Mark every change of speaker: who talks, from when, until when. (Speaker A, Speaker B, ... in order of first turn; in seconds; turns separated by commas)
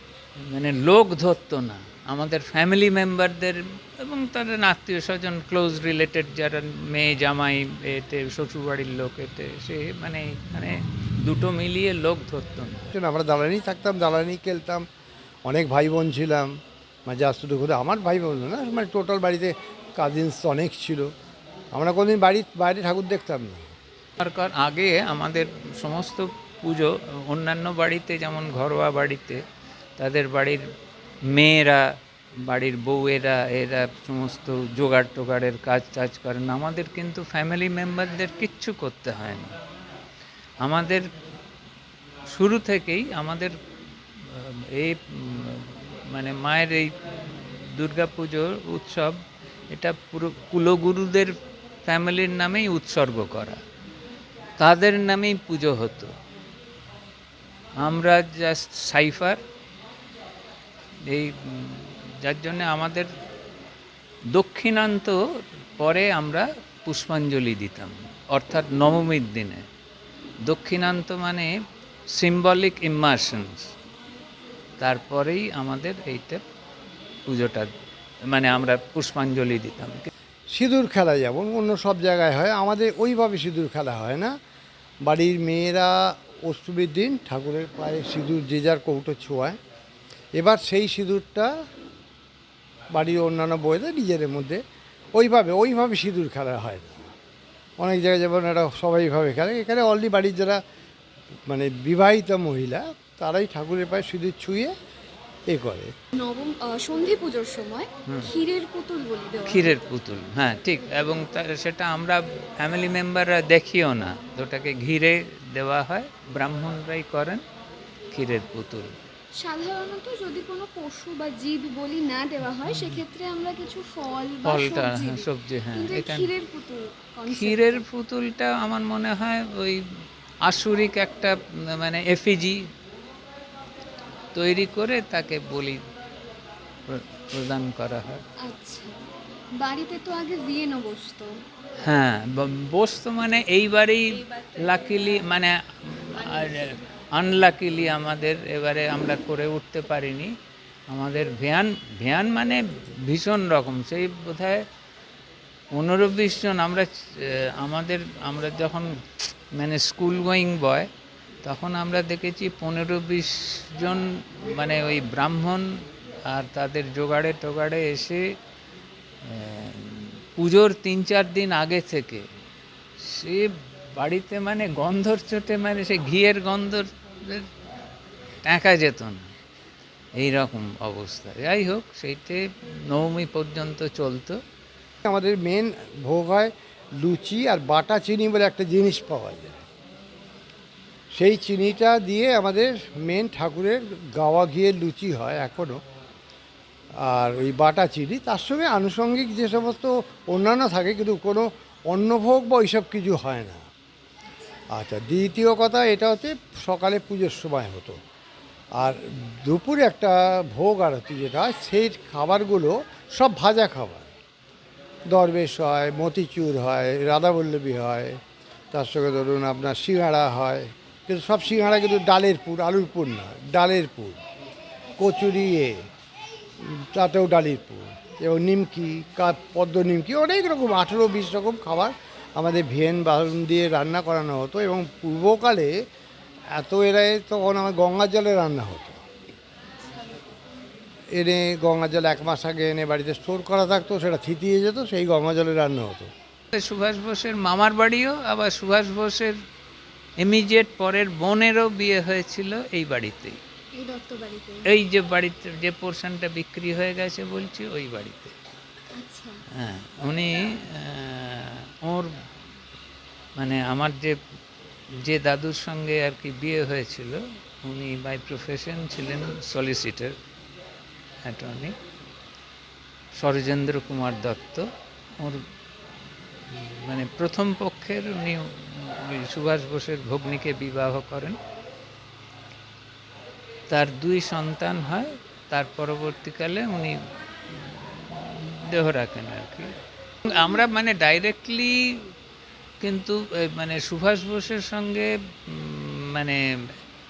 Speaker A: 0.4-12.9, Speaker B: 12.9-14.9, Speaker B: 15.4-16.5, Speaker B: 17.1-21.1, Speaker B: 21.7-23.7, Speaker A: 24.2-29.4, Speaker A: 30.0-30.6, Speaker A: 31.2-39.6, Speaker A: 40.6-41.1, Speaker A: 42.3-43.5, Speaker A: 44.2-53.6, Speaker A: 54.6-56.1, Speaker A: 57.8-59.4, Speaker A: 61.0-63.1, Speaker A: 64.3-65.2, Speaker A: 65.8-69.7, Speaker A: 70.4-71.5, Speaker A: 72.1-73.7, Speaker A: 74.8-76.4, Speaker A: 77.3-77.7, Speaker A: 78.2-80.1, Speaker B: 80.5-84.3, Speaker B: 85.0-89.6, Speaker B: 90.3-91.5, Speaker B: 92.9-94.6, Speaker B: 95.2-97.1, Speaker B: 97.8-100.6, Speaker B: 101.5-104.8, Speaker B: 105.5-105.9, Speaker C: 106.2-109.8, Speaker A: 108.1-108.3, Speaker A: 109.4-117.4, Speaker A: 118.1-119.0, Speaker C: 119.3-127.8, Speaker A: 122.7-123.0, Speaker A: 124.4-126.3, Speaker A: 127.3-129.8, Speaker A: 130.4-132.7, Speaker A: 134.3-135.8, Speaker A: 136.9-138.2, Speaker C: 138.4-139.0, Speaker C: 139.6-141.4, Speaker A: 141.8-150.3, Speaker A: 150.9-154.7, Speaker A: 155.7-160.9, Speaker A: 161.4-165.7, Speaker A: 166.2-168.3, Speaker A: 169.2-172.3, Speaker A: 173.0-177.5, Speaker A: 178.4-179.3, Speaker A: 180.2-184.4, Speaker B: 185.1-189.6, Speaker B: 191.1-195.8, Speaker B: 197.0-203.6, Speaker B: 204.7-208.0, Speaker B: 208.8-214.1, Speaker B: 215.1-218.2, Speaker B: 218.7-224.2, Speaker B: 225.0-225.9, Speaker B: 226.6-235.8, Speaker B: 236.5-239.0, Speaker B: 241.1-246.1, Speaker A: 246.5-249.3, Speaker A: 250.2-253.4, Speaker C: 253.7-254.7, Speaker A: 254.6-258.4, Speaker C: 258.9-259.4, Speaker A: 259.5-262.1, Speaker A: 263.4-264.2, Speaker A: 265.0-270.2, Speaker A: 271.2-271.8, Speaker A: 273.1-275.4, Speaker A: 276.5-281.4, Speaker A: 283.7-292.1, Speaker A: 292.8-296.7